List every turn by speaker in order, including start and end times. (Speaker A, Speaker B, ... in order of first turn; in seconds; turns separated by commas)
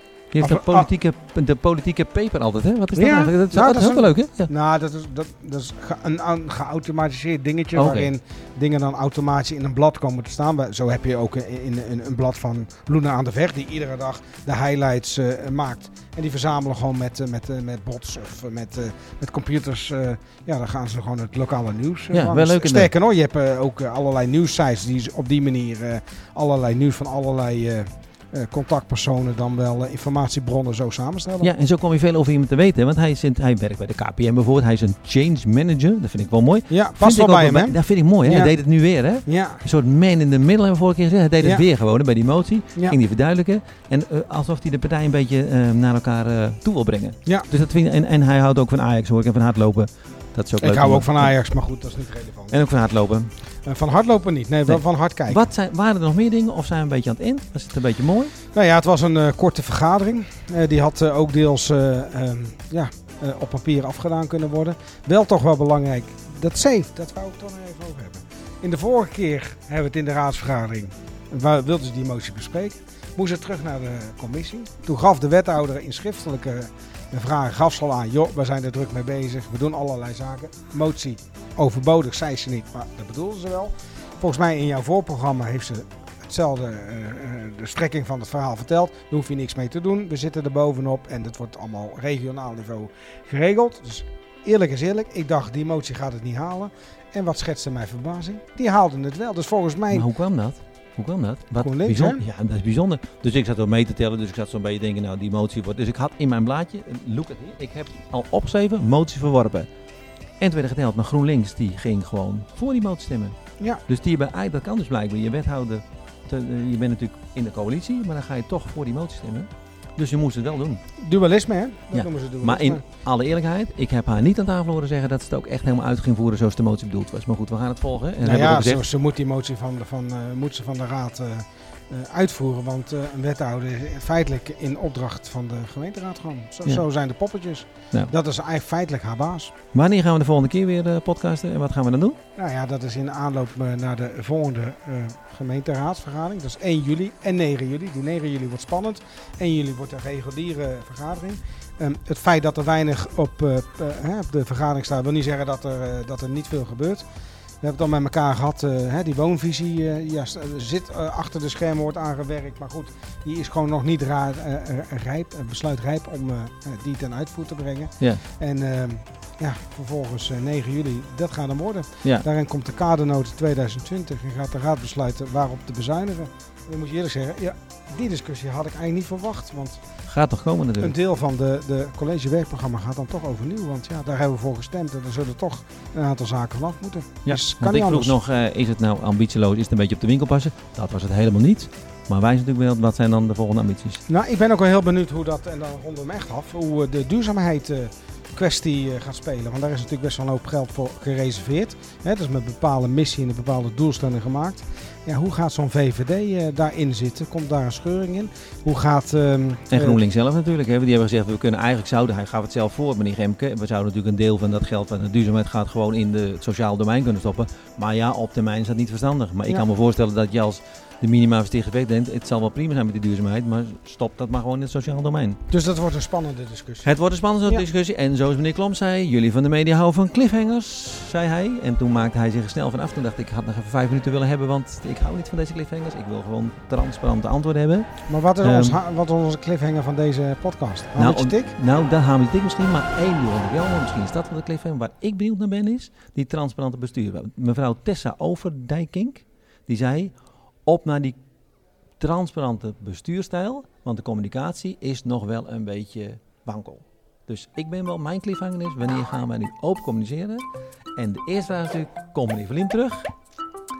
Speaker A: 0.3-4.5, Speaker B: 0.4-0.9, Speaker B: 2.9-31.5, Speaker A: 7.7-8.1, Speaker A: 22.1-22.9, Speaker A: 31.4-51.3, Speaker B: 36.7-38.5, Speaker B: 39.2-39.6, Speaker B: 41.4-41.6, Speaker B: 50.6-52.6, Speaker A: 52.5-53.3, Speaker B: 53.6-55.5, Speaker A: 54.7-58.3, Speaker B: 58.5-100.1, Speaker A: 99.9-109.7, Speaker B: 101.6-102.2, Speaker A: 110.4-113.3, Speaker A: 113.9-120.8, Speaker B: 121.0-122.8, Speaker A: 121.9-128.8, Speaker B: 128.2-139.5, Speaker A: 139.7-142.2, Speaker B: 142.3-157.0, Speaker B: 157.6-179.8, Speaker A: 180.1-180.9, Speaker B: 180.8-188.2, Speaker A: 187.2-194.0, Speaker B: 194.1-210.0, Speaker A: 209.7-225.4, Speaker B: 225.5-226.9, Speaker A: 226.8-237.9, Speaker B: 238.1-241.5, Speaker A: 238.4-238.8, Speaker A: 241.0-250.1, Speaker A: 250.7-251.2, Speaker A: 252.0-260.4, Speaker A: 260.9-263.1